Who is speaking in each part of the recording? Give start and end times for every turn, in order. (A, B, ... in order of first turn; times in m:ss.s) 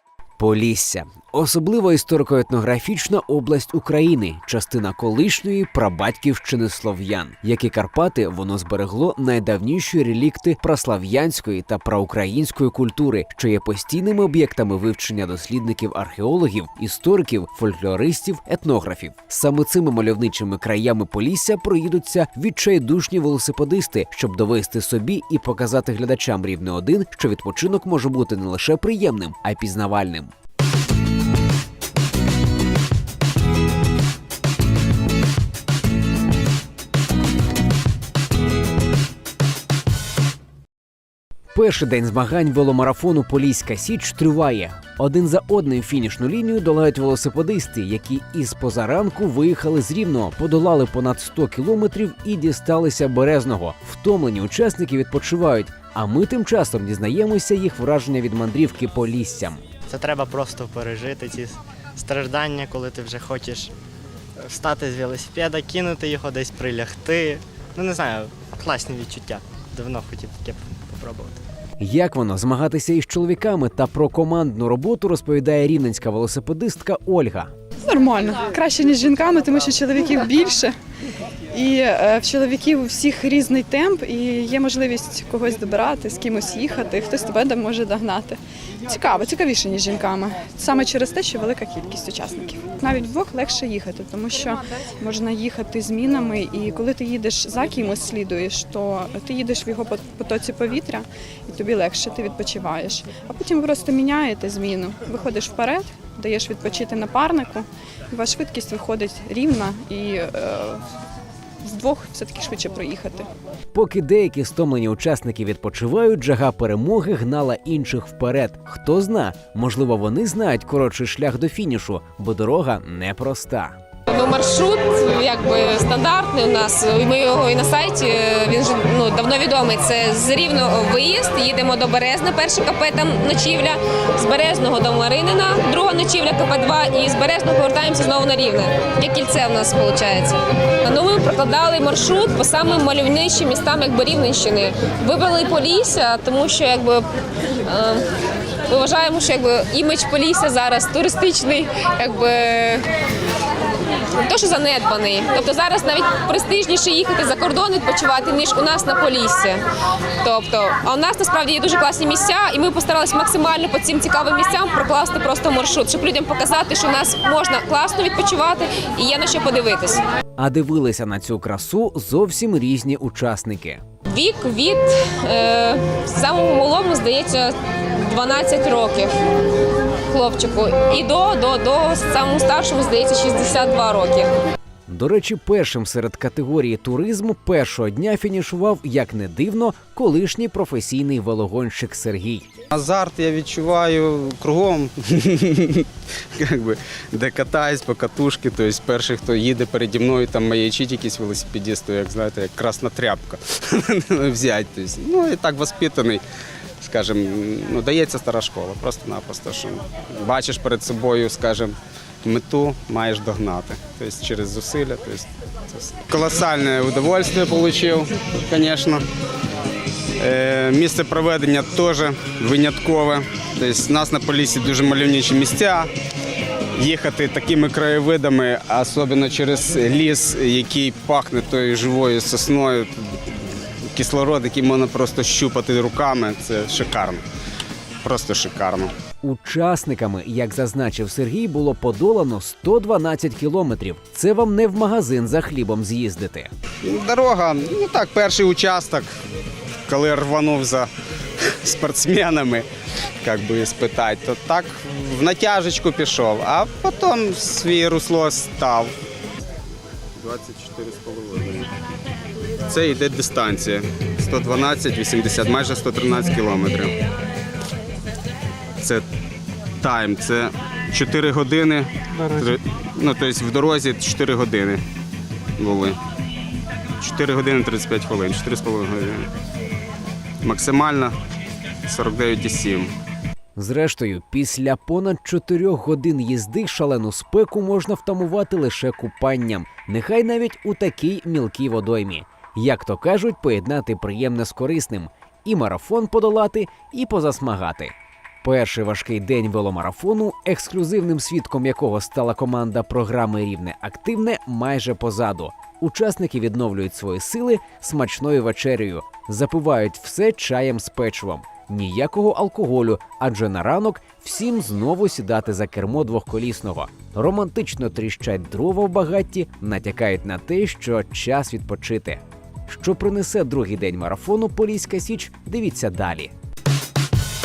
0:00.4-0:30.3 A
0:41.5-0:59.6 A
0:59.9-1:03.7 B
1:04.5-1:11.3 B
1:11.8-1:17.5 A
1:17.8-1:20.7 C
1:21.5-1:50.8 C
1:51.6-1:53.3 C
1:53.7-2:03.8 A
2:04.1-2:27.0 D
2:27.6-2:28.0 D
2:28.7-2:32.8 D
2:34.2-2:39.6 D
2:40.2-2:50.0 D
2:50.4-2:53.8 A
2:54.1-2:59.1 D
3:00.1-3:04.3 D
3:04.9-3:12.4 A
3:12.7-3:26.2 E
3:26.8-3:39.0 E
3:40.2-3:45.9 E
3:46.8-3:52.9 E
3:53.9-3:57.2 E
3:58.0-3:58.9 E
3:59.2-4:06.5 A
4:06.8-4:09.1 E
4:09.9-4:10.9 E
4:11.4-4:12.6 E
4:13.2-4:18.9 E
4:20.2-4:21.7 E
4:22.7-4:27.0 E
4:29.8-4:34.8 E
4:35.6-4:36.0 E
4:37.0-4:39.2 E
4:40.4-4:41.1 E
4:41.9-4:42.9 E
4:43.6-5:26.3 A